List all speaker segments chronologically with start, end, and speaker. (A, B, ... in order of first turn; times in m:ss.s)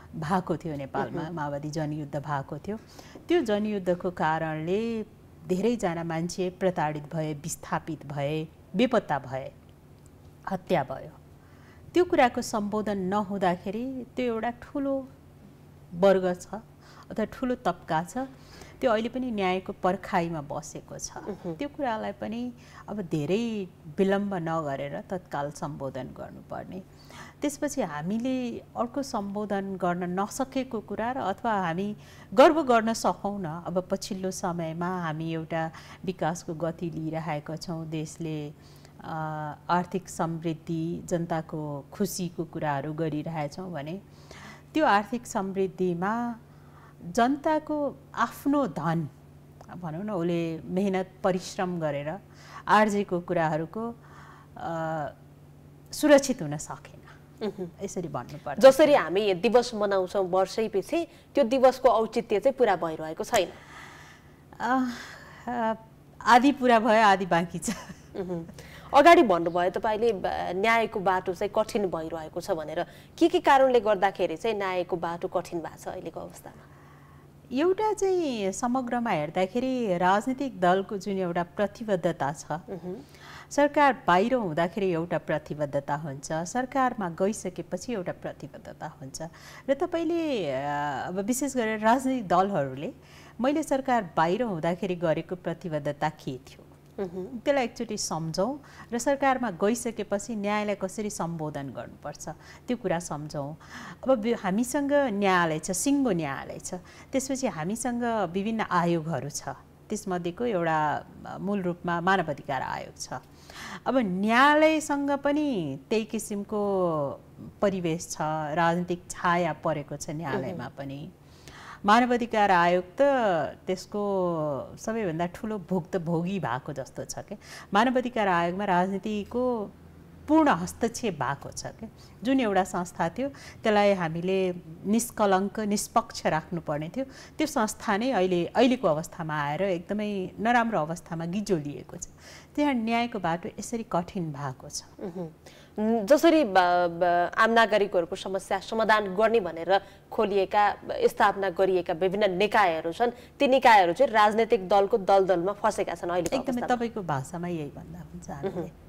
0:00.2-0:09.5 A
0:01.0-0:01.3 B
0:10.5-0:11.2 A
0:11.9-0:15.1 A
0:15.9-0:44.0 A
0:21.3-0:21.6 B
0:44.7-0:46.4 A
0:47.1-0:49.1 A
0:49.7-0:54.0 A
0:54.6-0:55.2 A
0:55.9-0:57.1 A
0:57.4-0:57.7 B
0:57.8-0:59.0 A
0:58.6-1:03.6 B
1:04.6-1:07.9 A
1:08.1-1:16.6 B
1:17.6-1:22.6 A
1:22.7-1:23.0 B
1:23.5-1:36.6 A
1:37.0-1:37.3 B
1:37.3-2:01.1 A
2:00.3-2:00.6 B
2:01.8-2:09.7 A
2:10.3-2:24.9 A
2:25.0-2:36.8 B
2:36.3-2:38.7 A